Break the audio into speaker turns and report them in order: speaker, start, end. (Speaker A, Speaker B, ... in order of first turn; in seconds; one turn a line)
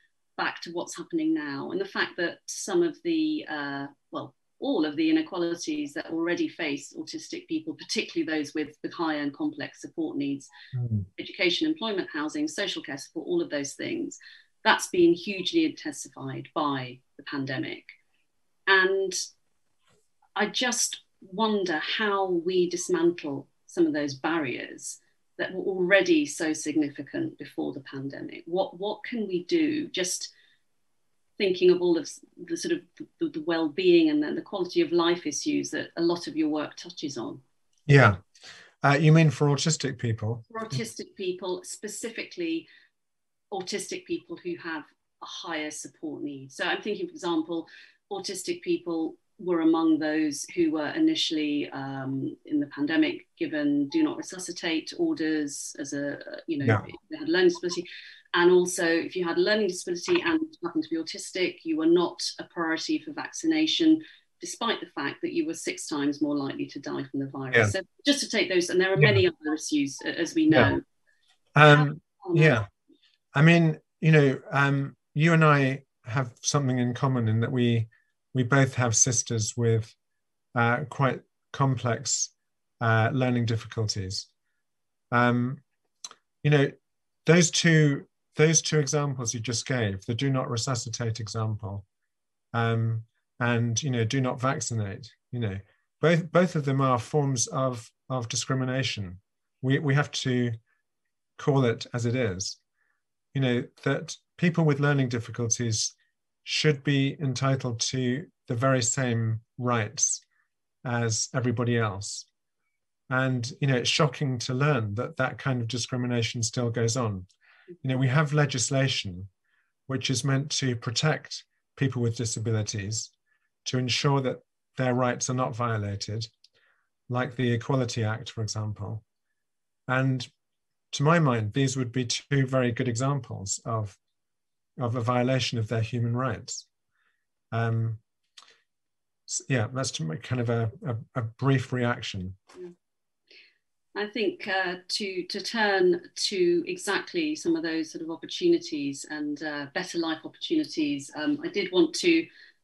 Speaker A: 0.4-10.5
Speaker B: 10.8-11.1
Speaker A: 11.2-17.9
Speaker A: 18.7-19.2
Speaker A: 20.4-30.3
Speaker A: 31.4-37.4
Speaker B: 37.9-38.2
Speaker B: 38.8-40.5
Speaker A: 40.5-42.7
Speaker A: 43.5-70.8
Speaker B: 71.5-72.7
Speaker A: 71.7-72.6
Speaker B: 73.3-80.0
Speaker B: 80.5-84.3
Speaker B: 85.1-85.6
Speaker B: 86.4-91.8
Speaker B: 92.5-100.6
Speaker B: 101.4-102.6
Speaker B: 103.3-110.2
Speaker B: 110.8-112.3
Speaker B: 113.1-117.3
Speaker B: 117.8-119.3
Speaker B: 119.9-123.1
Speaker B: 123.7-126.3
Speaker B: 127.1-129.0
Speaker B: 129.9-130.3
Speaker B: 130.9-134.0
Speaker B: 134.8-136.7
Speaker B: 137.5-138.0
Speaker B: 139.3-142.4
Speaker A: 143.9-152.3